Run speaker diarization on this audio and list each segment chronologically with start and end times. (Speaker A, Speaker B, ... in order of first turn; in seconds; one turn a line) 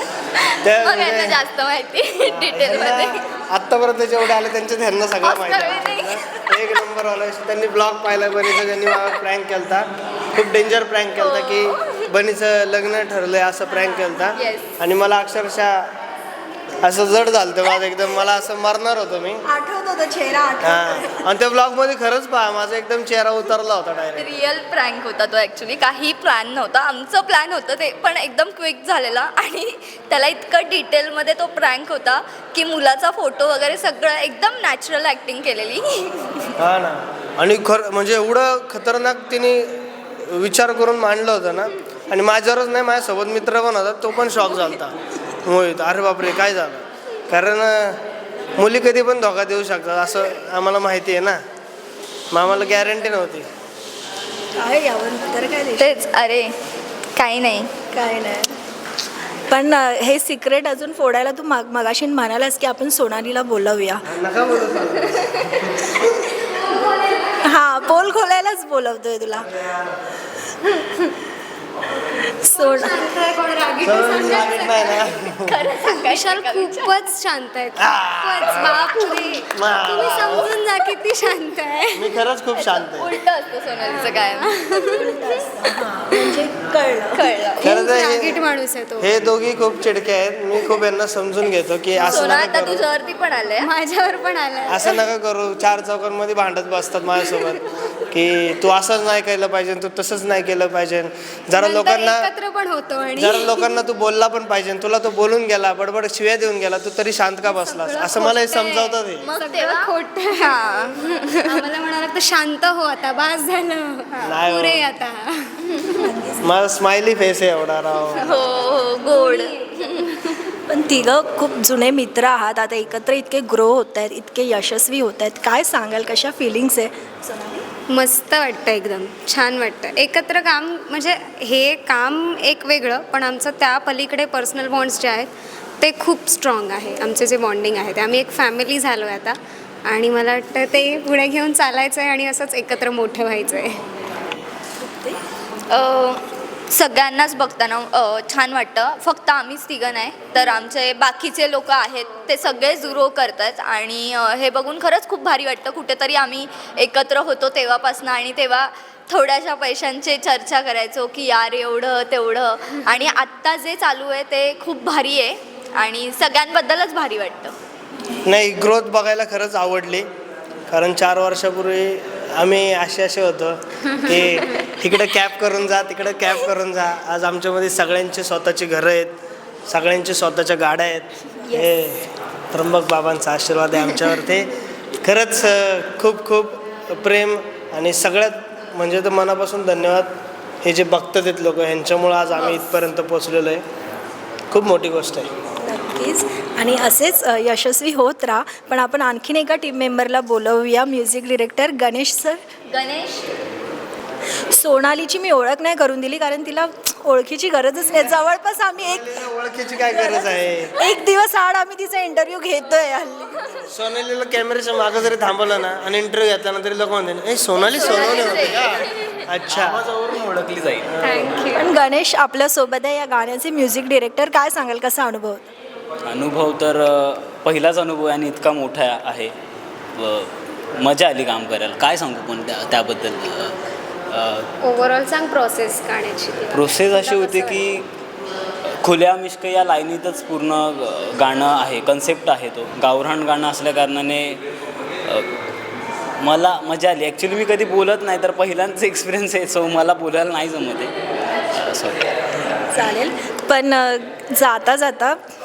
Speaker A: 0.3-3.2
Speaker B: 0.6-1.4
Speaker B: 2.2-15.9
Speaker A: 5.2-6.6
Speaker A: 11.2-12.1
Speaker A: 14.3-14.7
Speaker B: 16.8-19.4
Speaker C: 19.4-21.2
Speaker B: 20.6-24.4
Speaker A: 24.2-36.6
Speaker B: 36.6-48.0
Speaker B: 48.6-51.4
Speaker B: 52.3-53.5
Speaker C: 54.6-56.1
Speaker A: 55.8-56.5
Speaker A: 57.2-57.7
Speaker C: 57.9-58.5
Speaker C: 59.5-64.0
Speaker B: 64.1-65.9
Speaker C: 67.4-69.5
Speaker C: 72.4-73.0
Speaker D: 72.5-75.1
Speaker B: 73.8-75.6
Speaker A: 75.4-76.9
Speaker D: 75.8-82.2
Speaker B: 77.8-80.5
Speaker B: 81.9-83.1
Speaker A: 82.6-85.1
Speaker D: 83.8-85.1
Speaker C: 84.9-87.5
Speaker A: 87.2-87.7
Speaker D: 87.6-89.1
Speaker B: 87.6-88.4
Speaker B: 89.0-92.8
Speaker A: 92.0-93.7
Speaker D: 93.6-95.0
Speaker B: 94.7-102.3
Speaker D: 101.6-103.8
Speaker B: 103.2-109.3
Speaker D: 107.5-108.4
Speaker A: 108.5-111.6
Speaker D: 109.3-110.6
Speaker D: 111.4-115.6
Speaker B: 114.2-114.8
Speaker A: 115.7-116.1
Speaker C: 116.0-116.5
Speaker B: 116.4-118.4
Speaker A: 118.1-120.4
Speaker D: 118.9-120.4
Speaker C: 120.7-127.7
Speaker D: 127.9-143.8
Speaker C: 144.8-145.2
Speaker A: 145.7-167.5
Speaker B: 168.3-170.1
Speaker B: 170.7-179.2
Speaker B: 179.7-190.1
Speaker B: 190.6-193.6
Speaker B: 194.5-195.3
Speaker C: 195.6-202.4
Speaker A: 202.7-203.3
Speaker C: 204.5-209.2
Speaker B: 208.8-210.8
Speaker C: 209.8-213.6
Speaker B: 213.7-219.8
Speaker A: 217.7-219.2
Speaker E: 219.5-221.1
Speaker B: 221.0-221.2
Speaker D: 221.0-221.7
Speaker C: 221.5-225.5
Speaker E: 226.1-229.3
Speaker E: 230.0-233.6
Speaker E: 234.1-234.5
Speaker D: 234.6-237.7
Speaker E: 236.5-237.9
Speaker E: 238.8-244.4
Speaker E: 246.2-250.9
Speaker E: 251.5-252.1
Speaker C: 252.7-255.2